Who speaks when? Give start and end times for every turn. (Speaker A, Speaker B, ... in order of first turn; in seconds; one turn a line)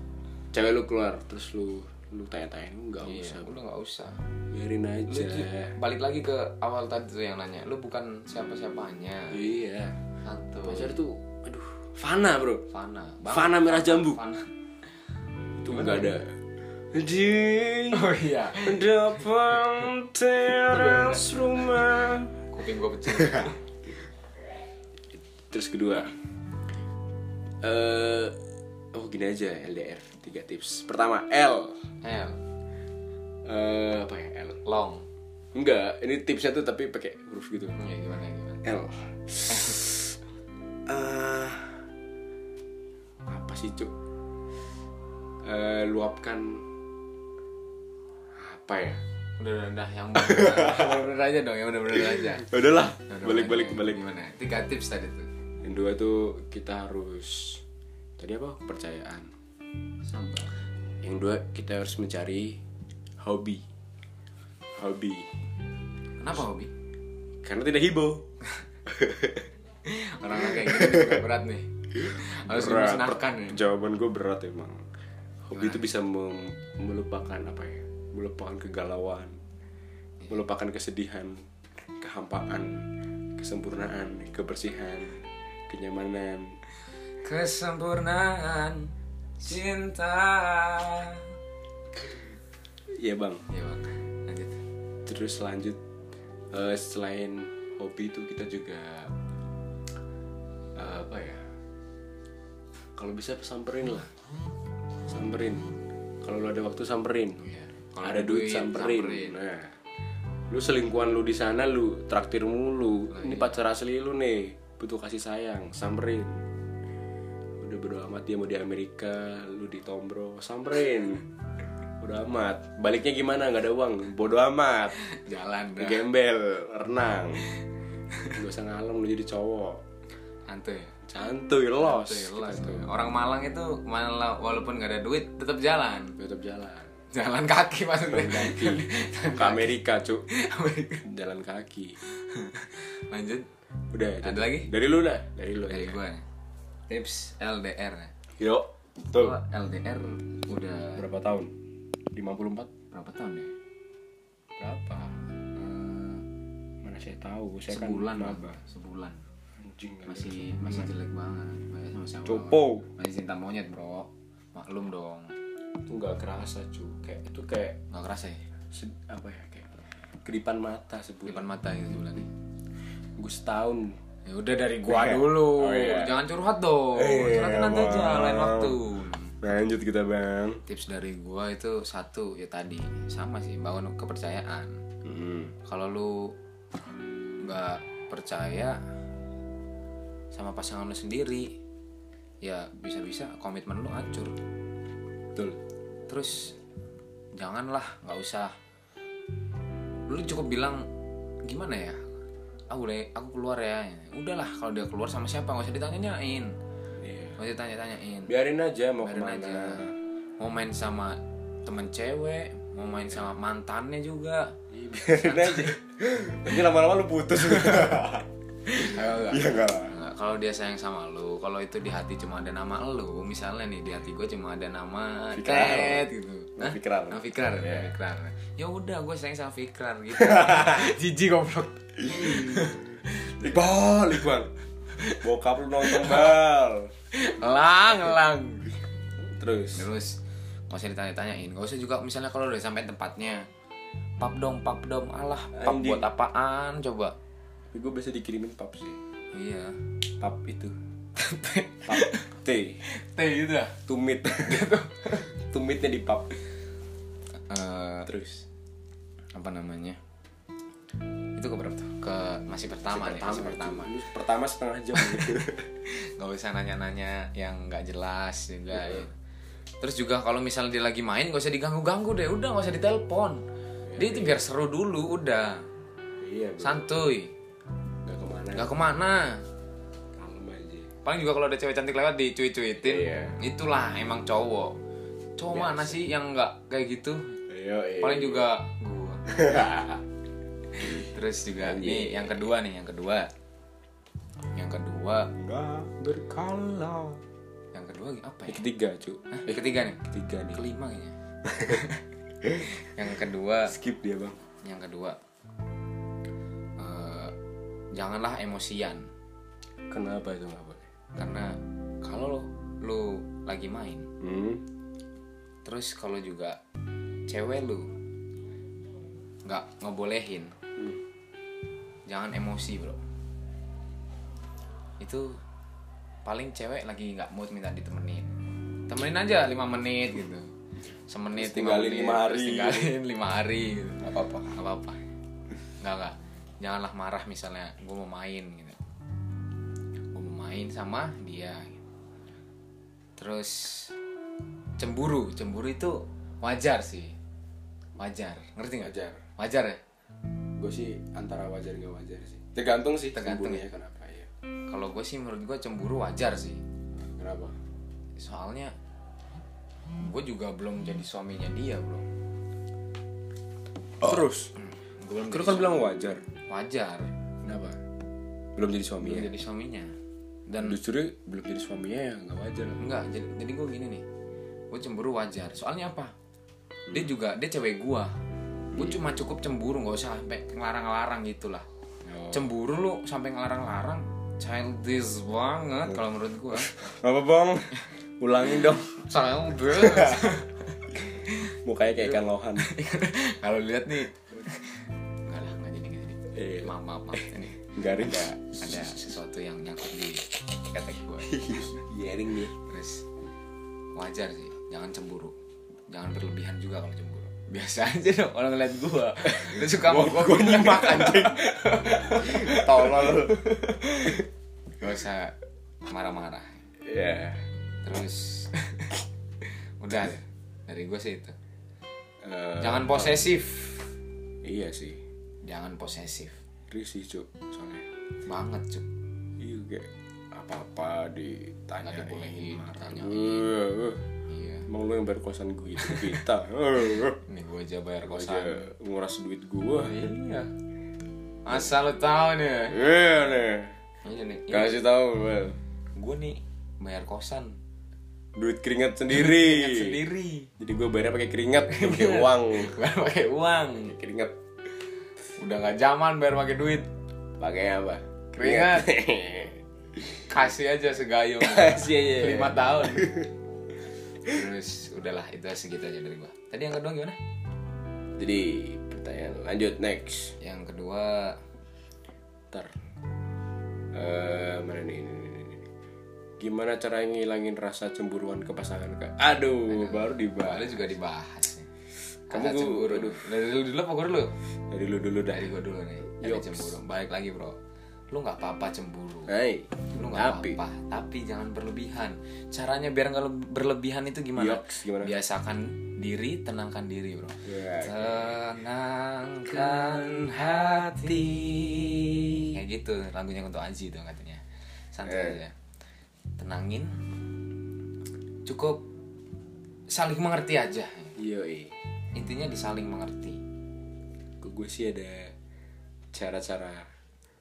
Speaker A: 0.5-3.5
Speaker B: 3.0-4.2
Speaker A: 4.5-5.8
Speaker B: 5.1-9.4
Speaker A: 9.3-10.0
Speaker B: 10.2-11.0
Speaker A: 10.6-12.6
Speaker B: 12.7-14.5
Speaker A: 13.3-14.2
Speaker A: 15.6-16.4
Speaker B: 15.7-16.2
Speaker A: 16.9-22.4
Speaker B: 17.9-18.9
Speaker B: 20.6-21.4
Speaker B: 22.5-23.6
Speaker A: 23.1-23.5
Speaker A: 25.5-26.1
Speaker A: 27.6-28.4
Speaker A: 28.9-31.9
Speaker B: 32.0-32.4
Speaker A: 33.5-34.6
Speaker B: 34.6-35.1
Speaker A: 35.5-37.8
Speaker B: 37.8-38.6
Speaker A: 38.6-40.1
Speaker B: 39.5-39.9
Speaker A: 40.9-41.9
Speaker A: 43.3-43.9
Speaker A: 45.4-46.7
Speaker A: 48.3-49.0
Speaker B: 49.4-55.3
Speaker A: 50.2-51.0
Speaker A: 52.0-54.0
Speaker A: 55.6-57.6
Speaker A: 58.2-59.3
Speaker B: 60.0-60.5
Speaker A: 61.0-62.6
Speaker A: 63.2-63.6
Speaker A: 64.8-65.3
Speaker B: 66.2-66.7
Speaker A: 67.4-68.2
Speaker A: 68.9-69.5
Speaker B: 69.9-73.6
Speaker A: 70.3-71.2
Speaker A: 72.0-74.9
Speaker A: 75.5-79.4
Speaker B: 75.5-75.8
Speaker A: 80.3-82.8
Speaker A: 83.4-86.6
Speaker B: 87.2-91.3
Speaker A: 92.9-93.5
Speaker B: 93.5-94.6
Speaker A: 95.1-95.8
Speaker A: 96.5-99.1
Speaker A: 100.8-101.5
Speaker A: 103.0-104.1
Speaker A: 105.1-105.7
Speaker A: 106.2-107.5
Speaker B: 107.5-109.4
Speaker A: 108.0-109.8
Speaker A: 110.5-116.4
Speaker B: 113.1-113.6
Speaker A: 117.6-121.2
Speaker A: 122.0-125.0
Speaker B: 125.0-126.0
Speaker A: 125.8-127.5
Speaker A: 128.3-129.8
Speaker B: 130.5-131.0
Speaker A: 131.1-132.9
Speaker B: 131.8-136.2
Speaker A: 136.2-136.9
Speaker B: 137.1-139.8
Speaker A: 138.1-140.2
Speaker B: 140.3-141.0
Speaker A: 141.0-142.0
Speaker B: 142.2-143.5
Speaker A: 143.9-146.0
Speaker B: 144.2-144.7
Speaker B: 145.7-146.2
Speaker B: 146.9-148.1
Speaker A: 148.4-149.4
Speaker B: 149.1-151.1
Speaker A: 151.0-151.5
Speaker A: 152.1-152.7
Speaker B: 152.9-153.5
Speaker A: 154.6-155.2
Speaker B: 155.5-156.2
Speaker A: 156.8-158.6
Speaker B: 157.7-159.2
Speaker A: 159.6-160.9
Speaker B: 160.1-165.3
Speaker A: 162.2-162.9
Speaker A: 165.9-167.8
Speaker B: 167.9-168.4
Speaker A: 168.7-171.5
Speaker B: 171.3-172.3
Speaker A: 173.2-174.0
Speaker B: 174.3-179.4
Speaker A: 174.9-176.2
Speaker A: 176.9-178.8
Speaker A: 179.4-180.6
Speaker B: 180.7-184.8
Speaker A: 185.0-185.5
Speaker B: 185.7-186.3
Speaker B: 187.4-188.8
Speaker B: 190.3-191.5
Speaker B: 192.4-194.3
Speaker B: 196.1-196.6
Speaker B: 197.4-198.6
Speaker B: 200.1-200.9
Speaker B: 201.4-202.0
Speaker B: 202.7-206.5
Speaker A: 207.0-207.4
Speaker B: 207.4-208.3
Speaker A: 208.3-210.0
Speaker B: 209.0-215.8
Speaker A: 214.7-219.9
Speaker B: 217.4-218.0
Speaker B: 218.7-233.3
Speaker A: 225.3-227.9
Speaker A: 230.2-230.9
Speaker A: 232.0-232.8
Speaker A: 233.4-234.5
Speaker B: 234.9-235.2
Speaker A: 235.2-236.9
Speaker B: 235.8-236.3
Speaker B: 237.1-238.7
Speaker A: 239.2-239.9
Speaker B: 239.8-240.2
Speaker B: 240.7-243.5
Speaker B: 244.2-247.1
Speaker A: 245.5-246.1
Speaker A: 247.7-249.0
Speaker B: 249.3-249.8
Speaker A: 250.2-250.8
Speaker B: 251.2-252.3
Speaker A: 251.9-252.8
Speaker B: 252.8-255.3
Speaker A: 253.9-254.7
Speaker A: 255.3-256.3
Speaker B: 257.5-258.1
Speaker A: 258.1-258.5
Speaker B: 259.4-260.0
Speaker B: 261.4-263.9
Speaker A: 262.9-265.7
Speaker B: 265.0-269.1
Speaker A: 268.7-269.1
Speaker B: 269.8-273.4
Speaker A: 273.9-274.4
Speaker B: 274.0-275.6
Speaker A: 276.2-276.9
Speaker B: 276.6-277.3
Speaker A: 278.0-278.7
Speaker B: 278.6-279.4
Speaker A: 280.1-280.9
Speaker B: 281.1-284.8
Speaker A: 282.8-283.4
Speaker B: 285.4-287.4
Speaker A: 285.5-286.0
Speaker A: 287.5-288.5
Speaker B: 288.0-289.2
Speaker A: 289.3-290.0
Speaker B: 290.7-293.3
Speaker A: 290.8-291.1
Speaker A: 291.6-292.5
Speaker B: 294.5-295.3
Speaker A: 295.3-297.2
Speaker B: 297.7-298.6
Speaker A: 298.5-299.4
Speaker B: 299.3-302.0
Speaker A: 300.0-300.6
Speaker A: 301.5-301.9
Speaker A: 302.4-302.7
Speaker B: 302.6-303.8
Speaker A: 303.7-304.4
Speaker B: 304.6-305.2
Speaker B: 306.8-307.3
Speaker B: 307.9-309.1
Speaker A: 309.9-310.9
Speaker B: 311.2-314.1
Speaker A: 314.2-314.6
Speaker B: 315.6-316.6
Speaker B: 317.3-317.9
Speaker B: 319.4-320.6
Speaker B: 322.1-323.0
Speaker B: 325.0-325.4
Speaker B: 326.2-328.3
Speaker B: 328.9-330.5
Speaker B: 331.1-335.0
Speaker A: 331.4-332.9
Speaker A: 334.0-334.5
Speaker B: 335.8-338.8
Speaker B: 340.1-341.8
Speaker B: 343.2-343.9
Speaker B: 344.8-347.2
Speaker B: 348.0-349.8
Speaker A: 348.8-349.2
Speaker A: 350.6-354.3
Speaker B: 353.1-353.6
Speaker B: 354.7-356.6
Speaker A: 357.0-357.6
Speaker B: 358.2-358.7
Speaker B: 360.0-362.0
Speaker A: 364.0-364.5
Speaker B: 364.6-365.8
Speaker A: 365.3-366.2
Speaker B: 366.5-367.1
Speaker A: 367.4-367.8
Speaker A: 368.6-369.3
Speaker B: 369.0-369.9
Speaker B: 370.5-370.8
Speaker A: 370.6-372.8
Speaker B: 372.8-374.0
Speaker B: 374.7-376.1
Speaker B: 376.9-378.1
Speaker A: 378.7-379.0
Speaker B: 378.7-381.6
Speaker A: 382.1-382.5
Speaker B: 382.3-386.8
Speaker A: 386.6-389.1
Speaker B: 388.6-401.7
Speaker A: 389.6-390.4
Speaker A: 391.6-392.7
Speaker A: 396.3-397.2
Speaker A: 397.7-399.0
Speaker A: 401.3-402.5
Speaker B: 402.6-403.1
Speaker B: 403.9-405.3
Speaker B: 405.9-414.2
Speaker A: 409.2-413.4
Speaker B: 414.8-415.4
Speaker B: 415.9-416.6
Speaker A: 416.8-417.5
Speaker B: 417.8-418.9
Speaker B: 419.8-421.4
Speaker A: 422.2-423.3
Speaker B: 422.6-423.9
Speaker A: 424.4-425.0
Speaker B: 425.4-426.4
Speaker A: 426.7-427.9
Speaker B: 428.2-428.9
Speaker A: 429.4-434.0
Speaker B: 431.8-433.5
Speaker B: 434.3-434.7
Speaker A: 434.7-437.2
Speaker B: 435.8-436.1
Speaker B: 437.2-438.7
Speaker A: 438.1-440.1
Speaker B: 439.8-440.5
Speaker B: 441.4-442.8
Speaker A: 442.7-443.8
Speaker B: 444.0-444.8
Speaker A: 444.5-445.6
Speaker B: 446.0-447.6
Speaker A: 448.4-450.0
Speaker B: 449.1-450.5
Speaker A: 450.6-452.8
Speaker B: 451.7-453.9
Speaker A: 453.8-454.4
Speaker B: 455.4-456.9
Speaker A: 457.4-460.0
Speaker B: 458.3-458.9
Speaker B: 460.3-463.3
Speaker A: 461.4-463.3
Speaker B: 464.2-467.2
Speaker A: 468.2-470.4
Speaker B: 470.4-471.4
Speaker A: 473.9-475.7
Speaker A: 476.4-480.8
Speaker B: 479.7-481.7
Speaker A: 482.3-483.3
Speaker B: 482.3-484.3
Speaker A: 484.6-485.5
Speaker B: 485.3-487.6
Speaker A: 486.1-486.7
Speaker B: 488.1-489.3
Speaker A: 489.3-490.6
Speaker B: 489.9-501.5
Speaker A: 494.4-495.1
Speaker A: 497.4-498.4
Speaker A: 499.5-502.5
Speaker B: 502.5-505.5
Speaker A: 505.1-505.4
Speaker B: 506.4-506.9
Speaker B: 508.5-508.8
Speaker B: 509.9-511.1
Speaker A: 511.2-511.7
Speaker B: 512.1-513.4
Speaker A: 514.4-515.3
Speaker A: 516.1-516.9